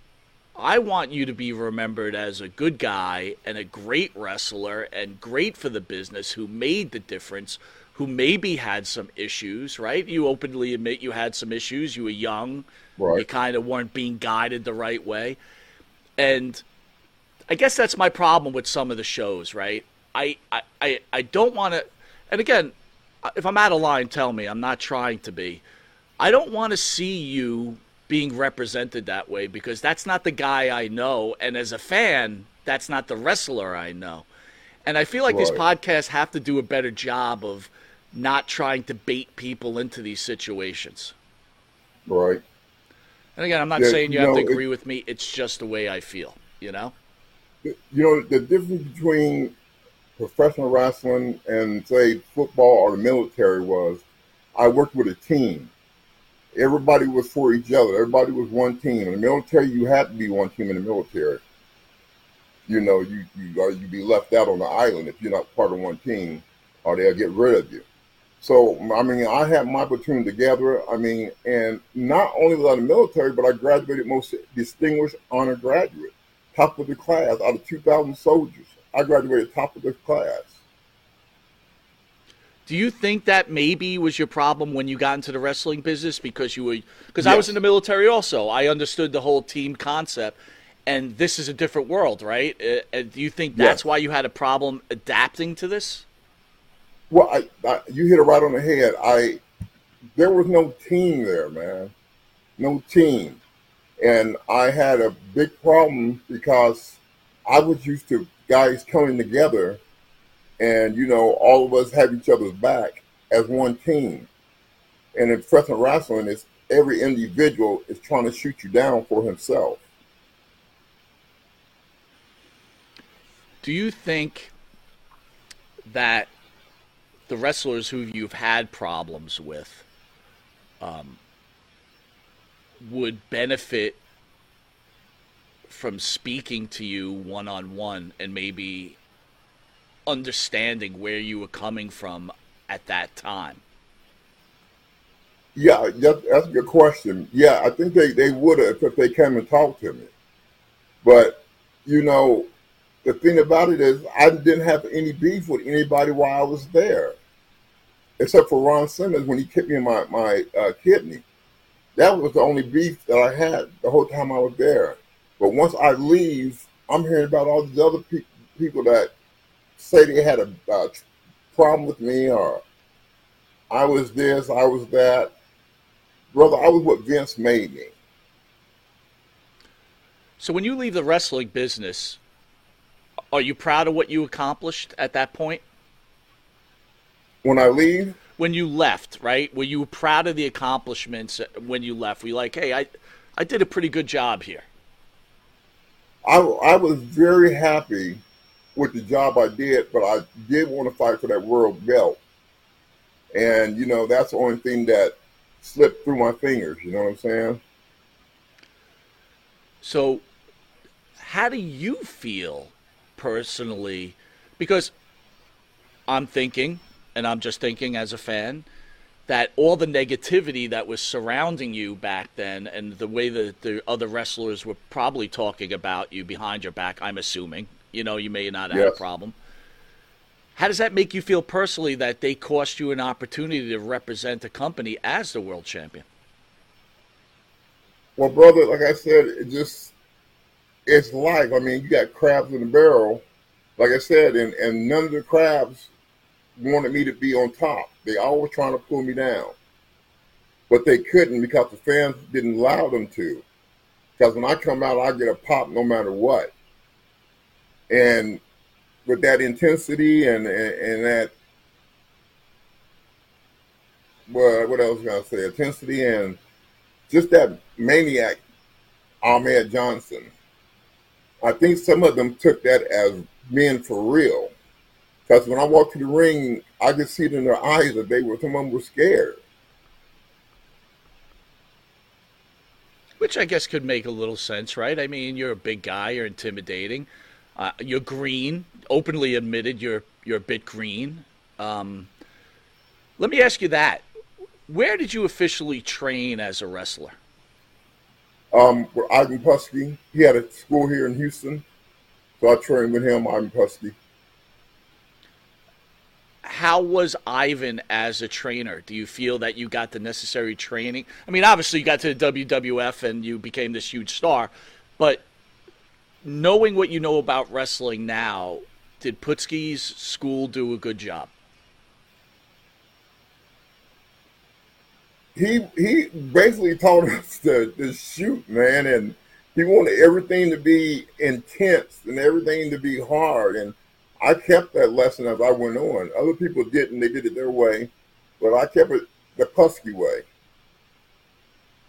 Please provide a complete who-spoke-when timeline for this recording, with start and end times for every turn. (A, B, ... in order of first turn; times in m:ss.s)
0:00.6-0:15.4 A
0:13.0-0:13.2 B
0:16.2-0:16.6 A
0:17.5-0:25.6 A
0:26.2-0:34.3 A
0:34.9-0:41.2 A
0:35.3-0:35.6 B
0:42.1-0:42.4 B
0:43.4-0:46.9 A
0:43.8-0:44.6 B
0:47.6-0:49.6 B
0:50.2-0:54.0 B
0:54.6-0:55.7 B
0:56.6-1:01.4 B
1:02.7-1:07.8 B
1:08.4-1:20.6 B
1:22.7-1:36.1 A
1:27.2-1:27.5 B
1:33.6-1:33.8 B
1:37.1-1:39.4 B
1:40.2-1:41.9 B
1:42.6-1:43.4 B
1:44.0-1:49.8 B
1:50.6-1:54.3 B
1:55.1-1:59.8 B
2:03.6-2:04.5 A
2:05.9-2:06.3 A
2:07.3-2:09.9 A
2:10.8-2:11.2 A
2:12.8-2:14.0 A
2:15.7-2:19.0 A
2:20.1-2:23.6 A
2:25.6-2:30.1 B
2:31.0-2:32.5 B
2:33.0-2:37.2 B
2:38.2-2:41.2 B
2:42.0-2:49.1 B
2:49.8-2:51.0 B
2:51.5-2:52.6 B
2:53.7-2:55.3 B
2:56.3-2:57.9 B
3:00.4-3:02.2 A
3:03.3-3:05.6 A
3:07.4-3:08.2 B
3:08.4-3:14.7 A
3:16.2-3:18.2 B
3:18.8-3:22.2 B
3:23.3-3:27.6 B
3:29.8-3:30.2 A
3:31.2-3:34.9 A
3:36.1-3:38.7 A
3:39.3-3:49.4 A
3:48.7-3:49.0 B
3:50.6-3:56.0 A
3:58.2-4:00.0 B
4:00.9-4:03.2 B
4:03.8-4:05.9 B
4:06.6-4:09.6 B
4:10.7-4:13.4 B
4:14.2-4:16.5 B
4:17.9-4:18.4 B
4:19.1-4:21.3 B
4:24.3-4:26.4 B
4:27.1-4:28.4 B
4:29.2-4:30.3 B
4:31.4-4:34.5 B
4:35.3-4:39.4 B
4:43.2-4:52.1 A
4:53.2-4:54.0 A
4:54.7-4:57.2 A
4:58.5-5:01.6 B
5:02.4-5:04.0 B
5:06.4-5:15.2 A
5:16.2-5:21.3 A
5:25.4-5:40.2 B